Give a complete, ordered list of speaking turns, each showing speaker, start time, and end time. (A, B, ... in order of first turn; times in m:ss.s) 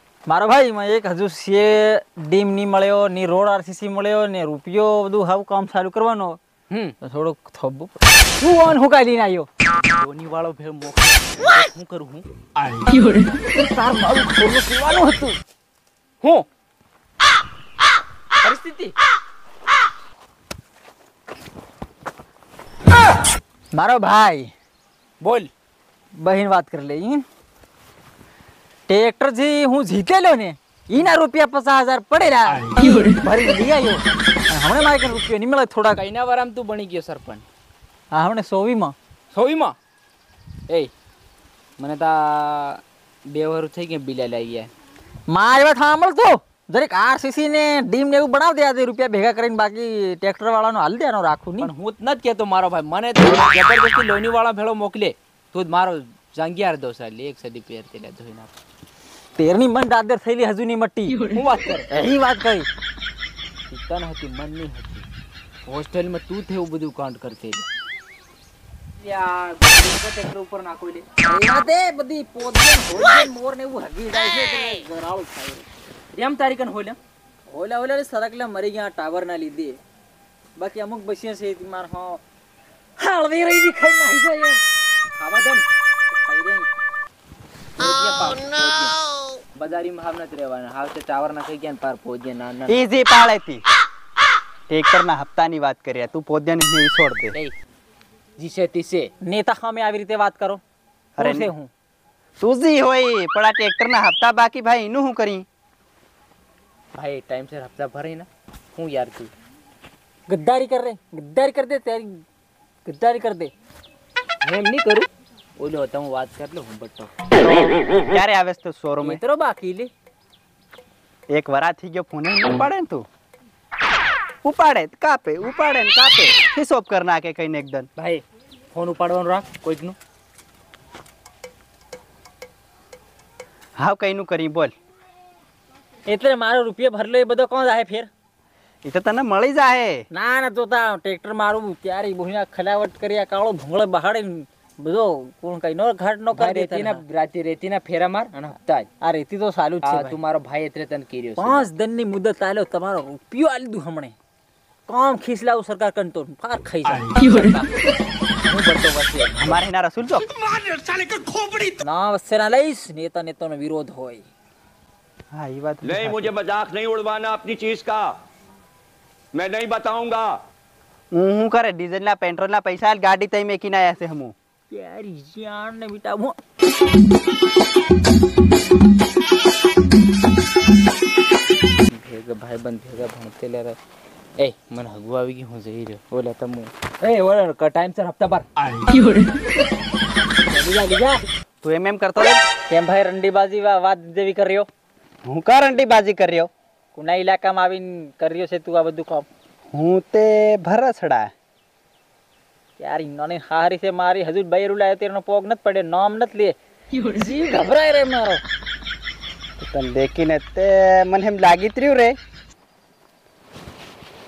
0:00.3-0:06.4 A
0:06.7-0:07.0 B
0:07.0-0:09.5 A
0:10.0-0:12.2 B
0:13.5-0:15.4 A
0:18.4-0:18.9 B
0:23.7-0:24.5 A
0:25.2-0:25.5 B
0:26.2-0:27.2 A
0:28.9-0:36.0 A
0:35.9-0:37.4 B
0:38.1-0:38.9 A
0:39.3-0:39.7 B
0:41.8-0:44.7 B
0:45.3-0:51.7 A
0:51.6-0:58.5 B
0:59.4-1:01.2 A
1:01.3-1:02.0 B
1:01.9-1:02.7 A
1:03.7-1:05.1 B
1:05.7-1:07.6 B
1:09.0-1:11.1 B
1:11.2-1:15.6 A
1:16.1-1:17.0 B
1:17.5-1:19.8 A
1:20.6-1:22.2 A
1:23.0-1:24.6 A
1:25.2-1:25.6 B
1:26.1-1:26.6 A
1:27.8-1:29.0 B
1:29.5-1:32.8 B
1:32.7-1:33.6 C
1:34.7-1:37.4 C
1:38.4-1:39.1 B
1:39.2-1:40.6 A
1:41.2-1:41.5 C
1:41.2-1:41.7 A
1:42.4-1:45.4 C
1:46.9-1:49.3 B
1:50.3-1:52.2 A
1:52.8-1:53.5 A
1:54.4-1:55.1 B
1:55.6-1:57.7 B
1:58.0-1:59.2 C
1:59.0-1:59.9 B
2:01.3-2:03.0 C
2:04.4-2:07.9 C
2:08.0-2:10.0 B
2:13.8-2:14.7 C
2:16.1-2:18.1 A
2:18.8-2:20.0 C
2:20.1-2:27.0 A
2:26.3-2:28.9 B
2:29.0-2:30.2 A
2:29.8-2:31.7 B
2:31.4-2:34.1 A
2:34.9-2:37.7 A
2:38.4-2:39.6 B
2:39.3-2:40.4 C
2:41.4-2:44.2 A
2:45.3-2:46.4 C
2:45.8-2:48.1 D
2:49.3-2:50.4 D
2:51.1-2:54.3 C
2:54.7-2:56.4 A
3:01.9-3:03.8 B
3:04.4-3:08.5 B
3:10.5-3:11.2 A
3:11.6-3:12.4 C
3:12.7-3:14.7 A
3:15.2-3:16.5 C
3:16.9-3:19.3 A
3:19.7-3:21.3 C
3:22.8-3:26.5 A
3:27.1-3:28.4 A
3:29.6-3:32.2 C